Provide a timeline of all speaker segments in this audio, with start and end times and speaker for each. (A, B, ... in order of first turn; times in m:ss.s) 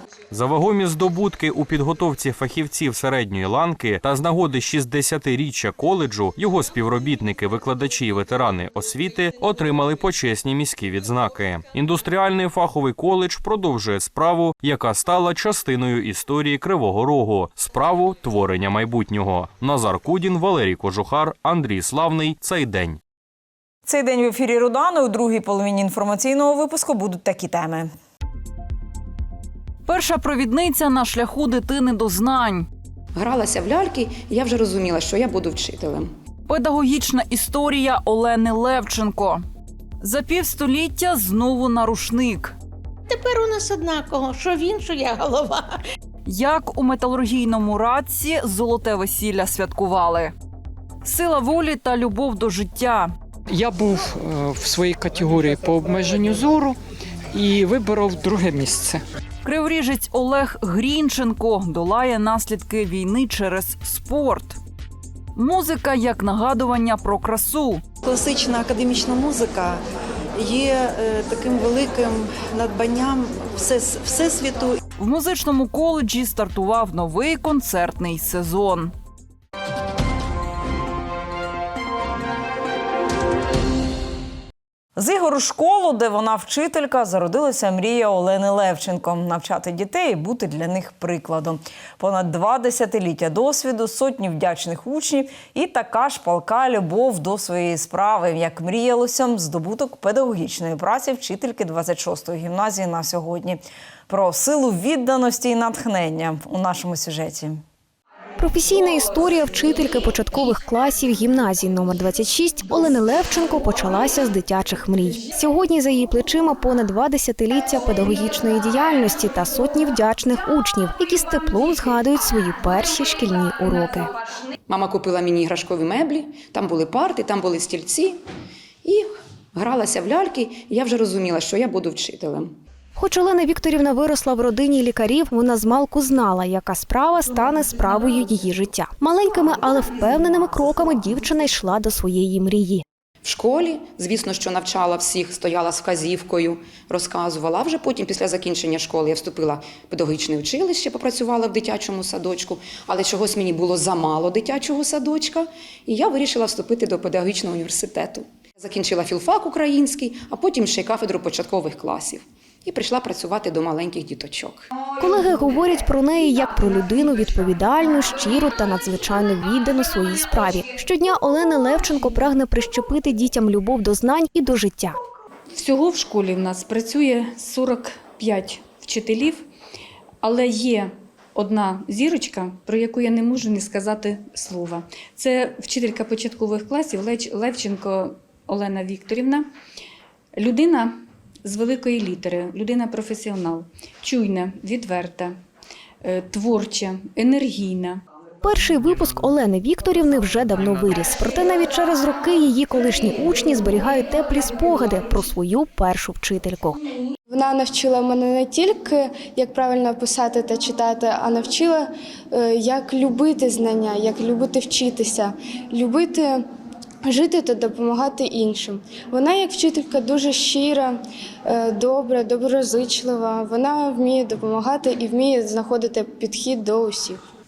0:00.3-0:23.0 A
0:23.8-0:27.9 B
0:29.8-0:32.6 C
0:33.1-0:36.1 D
0:36.5-0:39.4 C
0:40.0-0:42.5 C
0:43.1-0:45.7 E
0:46.2-0:50.3 C
0:51.0-0:53.1 C
0:53.5-0:56.8 F
0:57.3-0:59.0 F
0:59.4-1:04.6 C
1:05.4-1:07.8 C
1:08.0-1:09.8 G
1:10.4-1:14.8 G
1:15.0-1:18.9 C
1:25.0-1:47.6 B
1:48.4-2:04.1 H
2:04.7-2:08.2 D
2:08.8-2:12.6 D
2:13.0-2:22.8 H
2:23.2-2:44.7 D
2:45.0-2:55.0 H
2:55.5-2:59.4 I
3:00.2-3:09.5 I
3:10.4-3:15.4 I
3:16.0-3:18.0 I
3:18.4-3:26.8 H
3:27.3-3:36.4 J
3:37.0-3:40.9 J
3:41.5-3:47.2 J